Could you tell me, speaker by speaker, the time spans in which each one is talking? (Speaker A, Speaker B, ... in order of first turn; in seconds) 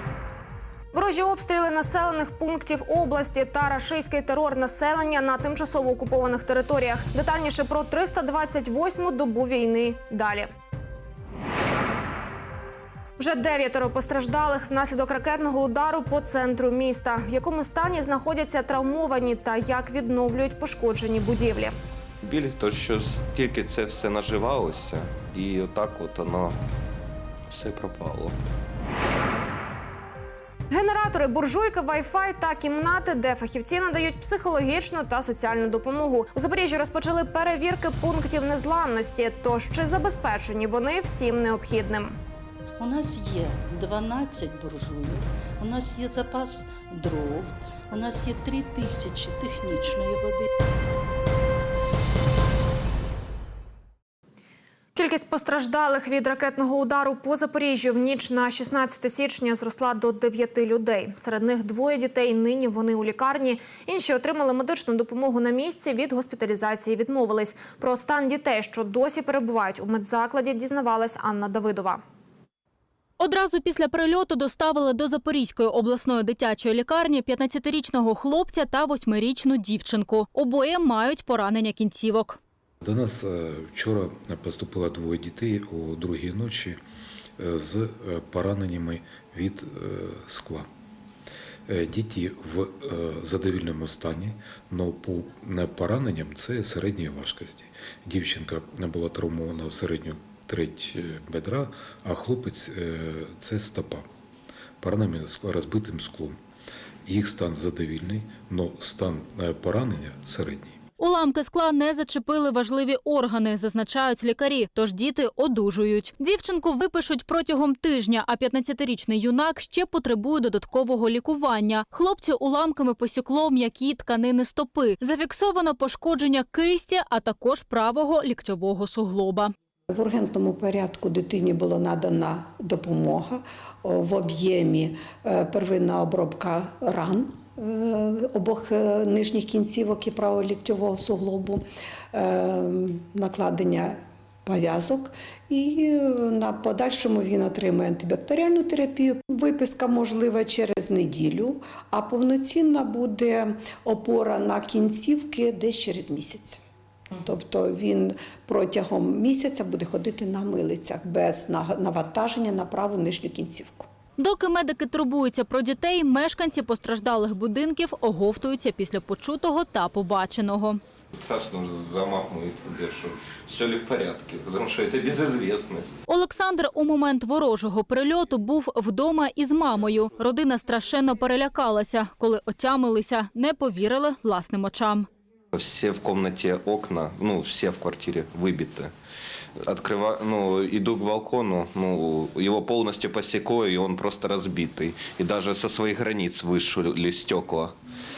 Speaker A: 0.9-10.5, 13.2-21.8, 30.7-42.2, 55.0-72.0
Speaker B: 22.2-26.6, 27.5-28.4, 171.2-176.0, 185.5-188.9, 189.6-197.7
Speaker C: 42.8-50.5
Speaker D: 73.2-82.4, 111.0-129.5, 164.2-170.8, 176.1-185.1
Speaker E: 82.8-86.8, 87.4-90.7, 91.7-104.1, 104.8-106.4, 107.1-110.8
Speaker F: 129.9-156.6, 157.2-163.9